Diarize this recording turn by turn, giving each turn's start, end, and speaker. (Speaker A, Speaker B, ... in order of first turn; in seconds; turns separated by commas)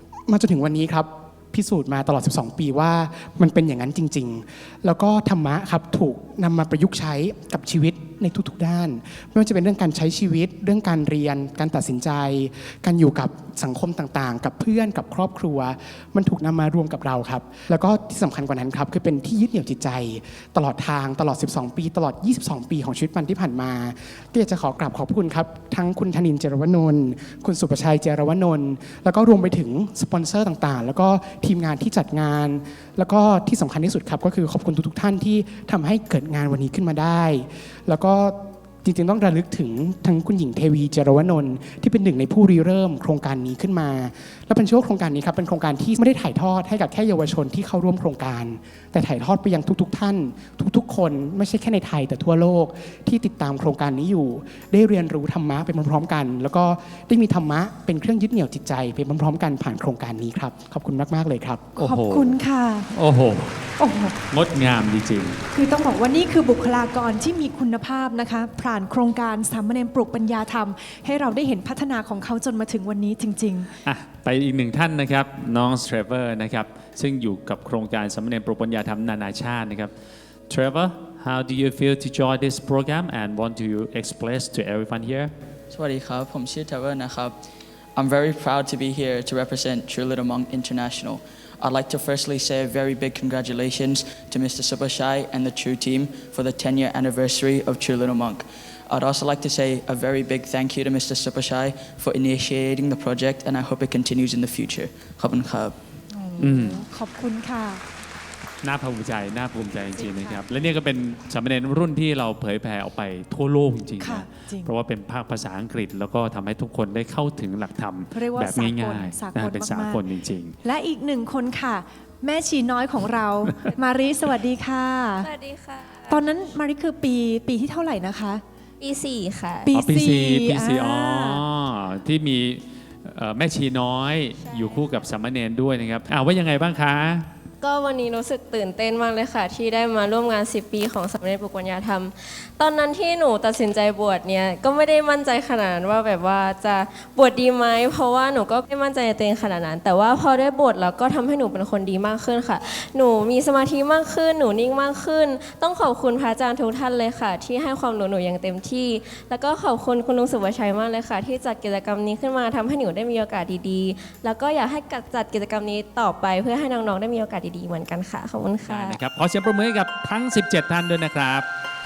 Speaker A: 0.3-61.7, Speaker B: 61.8-62.4, Speaker C: 61.8-62.9, Speaker B: 62.9-63.7, Speaker C: 63.8-64.1, Speaker B: 64.3-65.4, Speaker C: 65.5-73.7, Speaker B: 73.8-79.9, Speaker B: 80.5-85.3, Speaker D: 85.7-87.4, Speaker D: 88.0-105.8, Speaker C: 106.1-107.8, Speaker B: 106.4-106.8, Speaker B: 108.6-120.5, Speaker C: 109.9-110.5, Speaker C: 114.0-114.7, Speaker C: 118.1-120.0, Speaker C: 120.6-125.3, Speaker E: 125.2-126.2, Speaker C: 126.1-128.4, Speaker E: 128.8-129.7, Speaker C: 129.6-131.4, Speaker B: 129.7-137.3, Speaker E: 134.4-135.0, Speaker E: 137.6-169.0, Speaker B: 168.7-171.4